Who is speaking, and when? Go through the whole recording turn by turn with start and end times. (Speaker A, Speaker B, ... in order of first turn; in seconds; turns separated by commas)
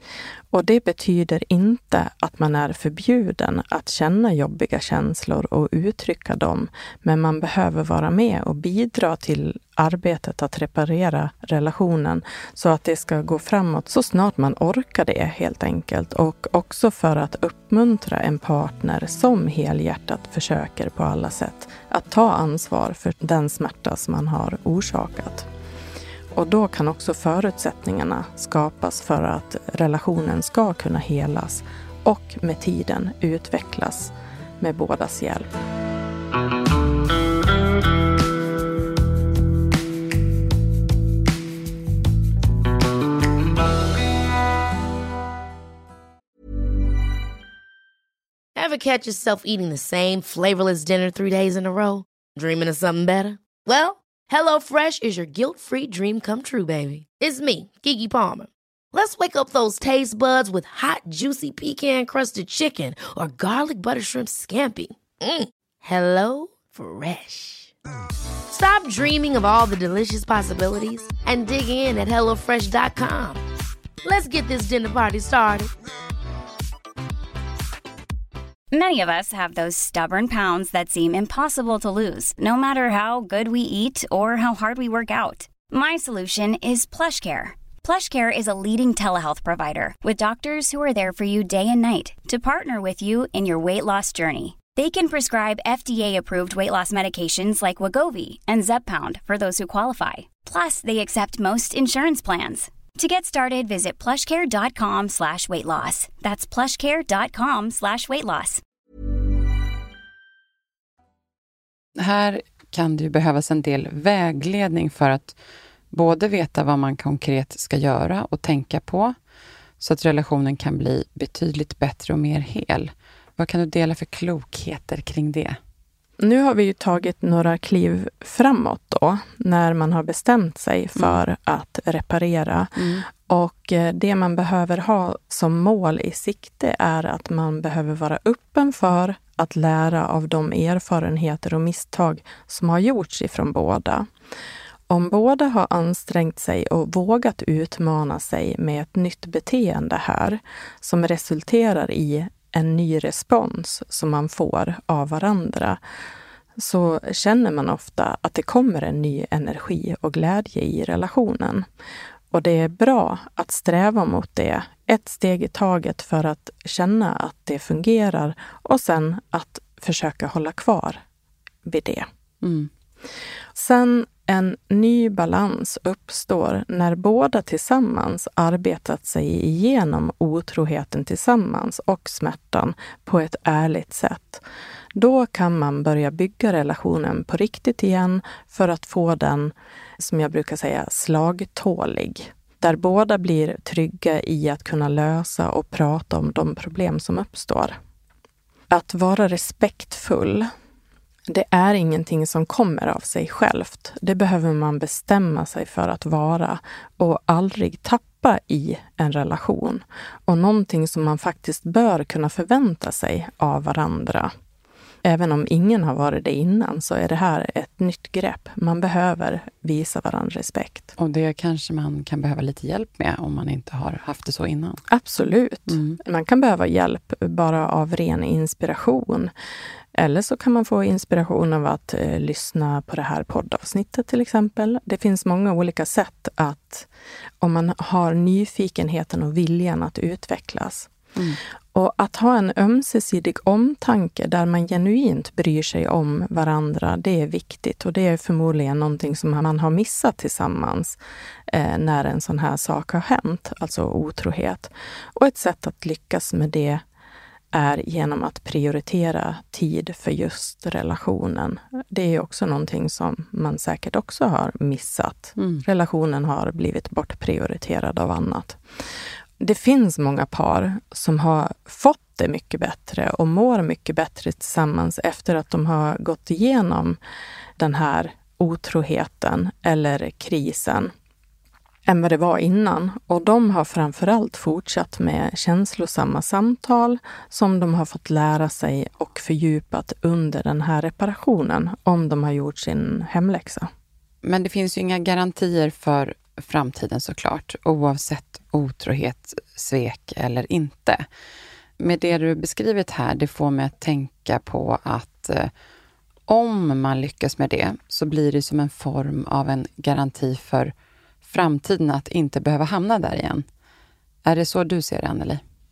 Speaker A: 0.5-25.5, Speaker A: 26.3-35.5, Speaker B: 48.6-67.7, Speaker B: 68.5-73.4, Speaker B: 74.0-75.7, Speaker C: 78.7-108.6, Speaker D: 112.0-115.3, Speaker D: 115.9-119.1, Speaker D: 119.8-125.6, Speaker A: 126.2-144.1, Speaker D: 131.0-131.2, Speaker D: 132.8-133.1, Speaker A: 144.9-155.8, Speaker A: 156.6-161.7, Speaker A: 162.3-171.0, Speaker A: 171.7-172.1, Speaker D: 172.4-172.7, Speaker A: 173.6-184.4, Speaker A: 184.9-197.8, Speaker A: 198.7-200.5, Speaker A: 201.3-214.3, Speaker A: 215.0-220.9, Speaker D: 221.0-224.8, Speaker A: 224.9-229.3, Speaker D: 225.7-226.0, Speaker A: 229.9-236.9, Speaker A: 237.4-240.9, Speaker A: 241.7-256.8, Speaker A: 257.5-268.6, Speaker D: 265.4-265.6, Speaker A: 269.4-277.0, Speaker A: 277.6-280.9, Speaker A: 281.9-293.7, Speaker D: 294.2-301.1, Speaker D: 301.8-305.5, Speaker D: 306.3-310.7, Speaker D: 311.2-313.4, Speaker D: 314.2-315.4